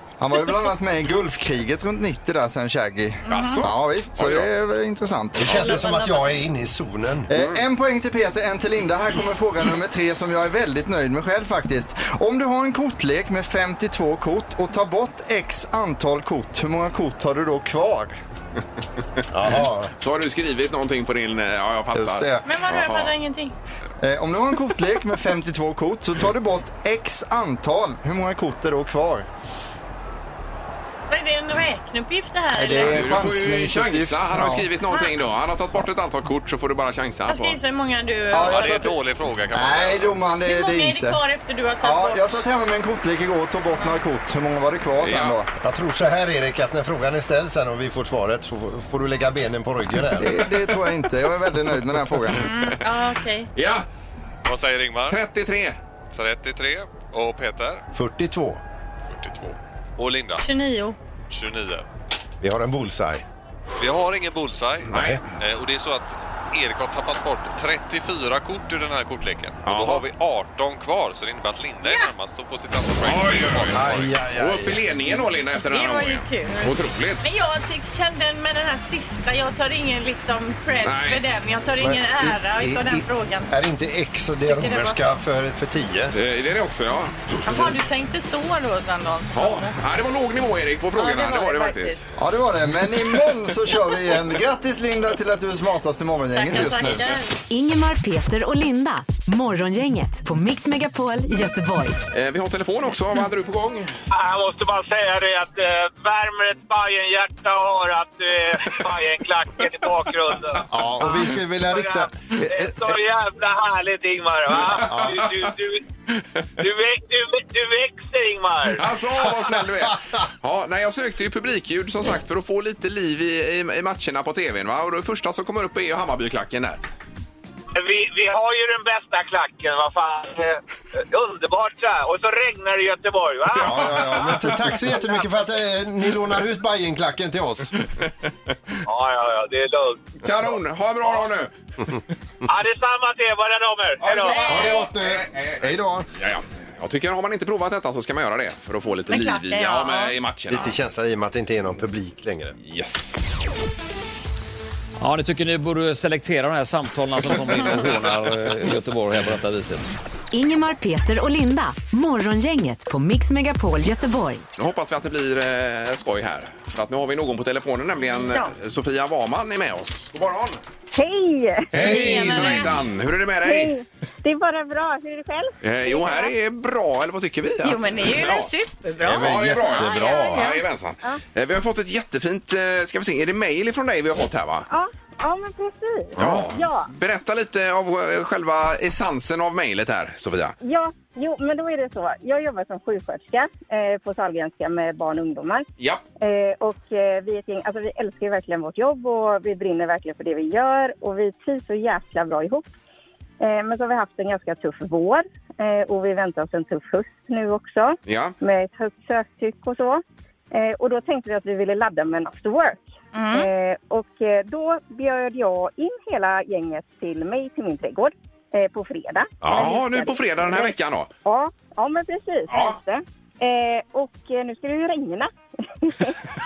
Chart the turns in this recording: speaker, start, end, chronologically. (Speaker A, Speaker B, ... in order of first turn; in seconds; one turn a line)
Speaker A: 0.2-5.8
Speaker B: 3.3-3.6
Speaker C: 3.3-4.5
Speaker D: 5.4-7.3
Speaker B: 5.5-6.3
Speaker A: 7.3-18.1
Speaker D: 19.3-19.9
Speaker C: 20.0-23.1
Speaker A: 21.9-22.5
Speaker B: 22.4-23.6
Speaker A: 24.0-29.3
Speaker B: 31.1-33.2
Speaker A: 32.5-34.7
Speaker C: 32.7-37.6
Speaker B: 34.9-35.1
Speaker B: 37.3-38.9
Speaker A: 38.3-39.0
Speaker E: 38.4-40.2
Speaker A: 39.5-41.2
Speaker B: 40.4-42.4
Speaker A: 41.8-45.5
Speaker C: 45.0-45.4
Speaker D: 45.6-50.5
Speaker A: 50.2-52.5
Speaker B: 52.4-53.5
Speaker C: 53.5-53.9
Speaker E: 54.5-55.2
Speaker C: 55.1-55.8
Speaker E: 56.1-57.8
Speaker D: 57.9-58.6
Speaker E: 59.1-60.5
Speaker B: 60.4-61.0
Speaker E: 61.3-61.9
Speaker D: 62.4-63.2
Speaker E: 63.8-74.2
Speaker C: 64.9-65.2
Speaker D: 64.9-65.2
Speaker C: 69.7-70.0
Speaker B: 71.8-72.1
Speaker C: 73.0-77.3
Speaker D: 73.7-74.8
Speaker B: 75.6-83.5
Speaker C: 80.8-81.2
Speaker D: 81.8-86.2
Speaker B: 84.4-85.1
Speaker C: 86.1-87.4
Speaker B: 87.5-89.8
Speaker C: 89.3-92.0
Speaker B: 91.0-92.0
Speaker A: 92.2-97.2
Speaker B: 96.3-97.4
Speaker F: 97.5-102.0
Speaker C: 102.1-103.9
Speaker G: 104.1-111.1
Speaker D: 110.7-113.0
Speaker G: 111.6-115.8
Speaker D: 114.7-115.3
Speaker G: 116.6-118.8
Speaker C: 118.7-126.8
Speaker D: 119.2-120.2
Speaker G: 127.8-134.3
Speaker D: 133.6-137.7
Speaker G: 138.9-140.2
Speaker C: 140.2-141.5
Speaker G: 142.5-144.5
Speaker C: 144.0-150.8
Speaker B: 144.2-144.8
Speaker D: 144.4-146.1
Speaker B: 149.1-150.2
Speaker D: 150.5-152.6
Speaker C: 152.6-153.2
Speaker H: 155.0-159.9
Speaker F: 160.3-164.4
Speaker C: 164.6-170.6
Speaker B: 168.1-168.5
Speaker I: 170.9-172.0
Speaker D: 171.7-172.6
Speaker C: 171.8-173.8
Speaker B: 171.8-172.8
Speaker I: 173.4-176.3
Speaker C: 175.6-178.5
Speaker B: 177.6-180.6
Speaker D: 179.0-179.9
Speaker C: 179.1-184.7
Speaker I: 184.7-186.9
Speaker C: 186.2-190.6
Speaker D: 186.2-186.4
Speaker I: 190.6-195.7
Speaker I: 196.2-202.7
Speaker I: 203.4-220.7
Speaker C: 208.1-208.3
Speaker B: 213.1-213.5
Speaker D: 219.4-219.7
Speaker C: 219.4-221.1
Speaker I: 221.2-225.3
Speaker C: 222.5-222.8
Speaker I: 225.8-226.2